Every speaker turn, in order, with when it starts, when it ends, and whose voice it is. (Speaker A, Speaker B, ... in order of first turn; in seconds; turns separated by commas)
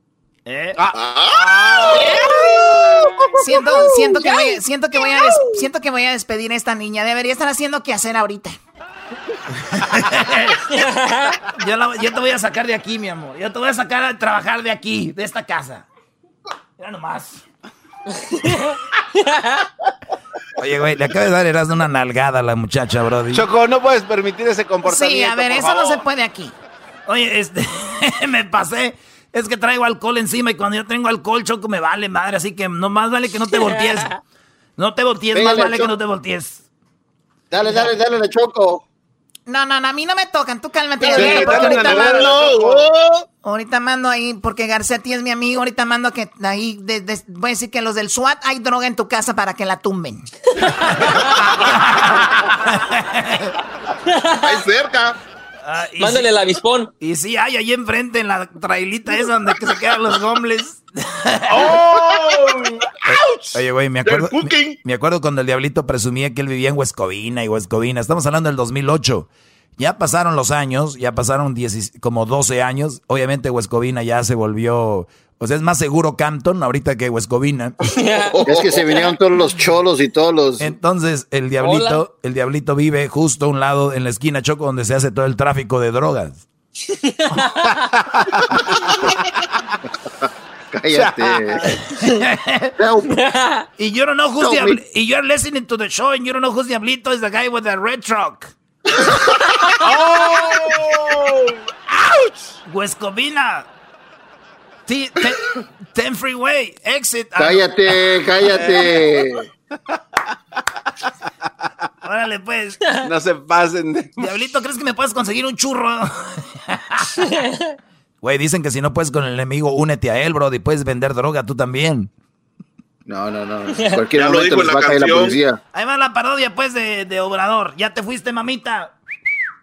Speaker A: 0.5-0.8, Speaker B: 0.8-2.8, Speaker C: 0.9-1.9, Speaker D: 3.4-8.6, Speaker A: 9.8-10.6, Speaker E: 10.8-11.3, Speaker A: 11.6-15.9, Speaker A: 16.8-17.4, Speaker F: 20.6-23.5, Speaker B: 23.3-26.0, Speaker D: 24.9-26.5, Speaker A: 27.1-34.1, Speaker E: 33.5-34.2, Speaker A: 34.8-36.6, Speaker G: 35.3-35.9, Speaker G: 37.5-38.8, Speaker D: 39.5-42.2, Speaker B: 41.0-42.9, Speaker C: 41.2-42.9, Speaker D: 43.4-50.3, Speaker A: 52.7-53.4, Speaker E: 54.2-54.6, Speaker C: 54.4-55.2, Speaker A: 55.6-56.3, Speaker E: 56.0-56.9, Speaker A: 57.0-61.7, Speaker B: 61.5-62.5, Speaker C: 61.7-62.4, Speaker F: 63.1-77.8, Speaker C: 64.0-64.8, Speaker E: 78.0-78.4, Speaker C: 78.4-79.0, Speaker G: 78.4-80.7, Speaker F: 80.6-86.4, Speaker E: 81.6-82.0, Speaker G: 90.7-91.7, Speaker B: 90.9-91.4, Speaker A: 92.0-92.7, Speaker G: 92.8-93.1, Speaker E: 93.1-93.6, Speaker A: 93.8-98.5, Speaker G: 94.4-94.8, Speaker B: 99.8-101.5, Speaker A: 102.7-103.7, Speaker A: 104.9-107.8, Speaker G: 107.4-109.4, Speaker A: 112.0-112.8, Speaker B: 113.0-114.2, Speaker A: 114.2-117.0, Speaker F: 118.2-122.1, Speaker G: 123.1-125.6, Speaker C: 124.1-125.4, Speaker A: 125.7-128.9